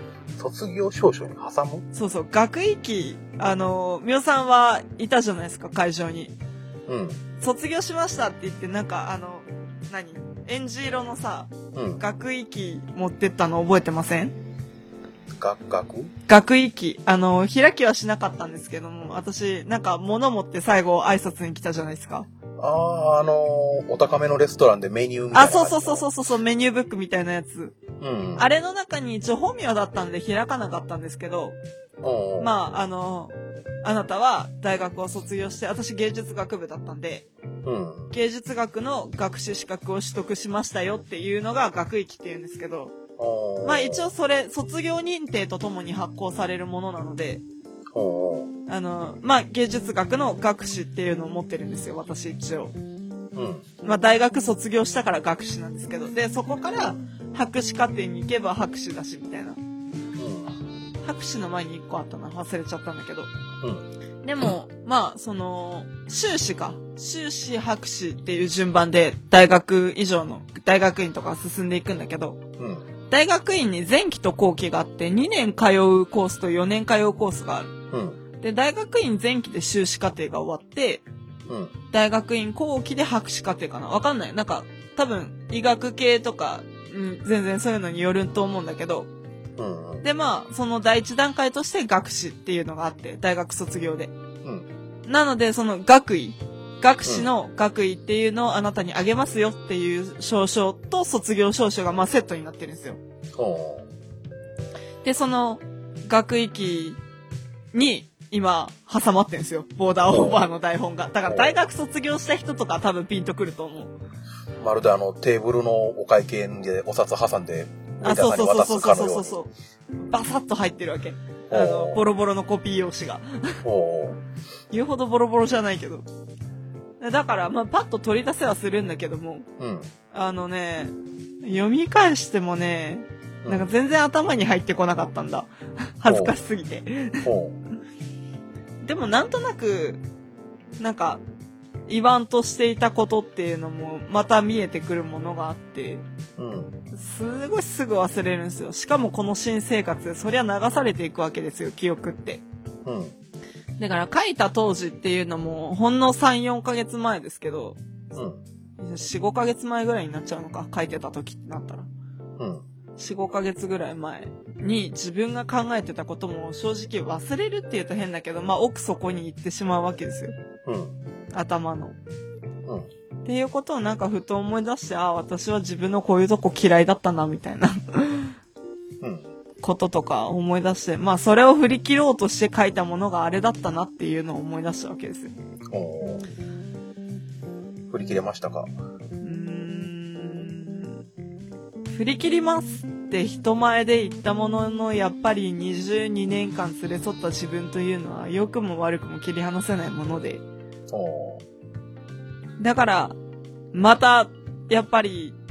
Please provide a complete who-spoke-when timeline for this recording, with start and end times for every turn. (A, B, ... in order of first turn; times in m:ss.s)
0:00.4-0:01.9 A
0:01.9-0:06.3 B
0:06.9-0:07.2 A
0:07.4-0:14.4 B
0:11.8-0:12.0 A
0:15.3-0:16.1 A
0:16.3-0:22.3 B
0:22.6-0:26.1 A
0:25.3-0:27.8 B
0:28.0-0:28.5 A
0:28.4-0:31.6 B
0:32.0-0:32.5 A
0:32.4-0:37.3 B
0:37.6-0:38.1 A
0:38.1-0:43.0 B
0:43.2-0:44.1 A
0:43.6-0:47.4 B
0:47.9-0:48.5 A
0:48.7-0:52.8 B
0:53.4-0:53.7 A
0:53.8-0:59.6 B
1:00.2-1:00.6 A
1:01.0-1:03.3 B
1:03.6-1:03.9 A
1:04.2-1:12.4 B
1:12.6-1:12.9 A
1:13.1-1:17.7 B
1:17.9-1:18.2 A
1:18.4-1:21.0 B
1:21.5-1:21.7 A
1:21.9-1:29.1 B
1:29.6-1:30.0 A
1:30.0-1:34.1 B
1:35.1-1:43.0 B
1:43.4-1:43.9 A
1:45.0-1:47.0 B
1:47.7-1:53.9 B
1:50.1-1:50.4 A
1:51.3-1:51.6 A
1:54.6-1:59.5 A
1:58.0-1:59.5 B
2:00.1-2:03.6 B
2:01.5-2:02.0 A
2:03.6-2:04.2 A
2:04.7-2:06.0 B
2:07.0-2:09.5 B
2:09.6-2:09.9 A
2:10.1-2:17.3 B
2:16.1-2:16.4 A
2:17.2-2:17.6 A
2:18.8-2:20.0 B
2:20.8-2:21.2 B
2:21.9-2:26.0 B
2:26.4-2:26.7 A
2:26.9-2:32.4 B
2:32.8-2:33.2 A
2:33.8-2:37.8 B
2:38.1-2:38.4 A
2:38.8-2:41.9 B
2:42.4-2:42.6 A
2:43.0-2:50.4 B
2:50.6-2:51.0 A
2:51.3-2:52.0 B
2:53.2-2:58.4 B
2:59.0-2:59.3 A
2:59.6-3:05.3 B
3:05.7-3:06.3 A
3:07.9-3:08.7 A
3:09.2-3:11.0 B
3:11.9-3:20.4 B
3:20.9-3:21.4 A
3:22.6-3:23.2 B
3:23.7-3:25.4 B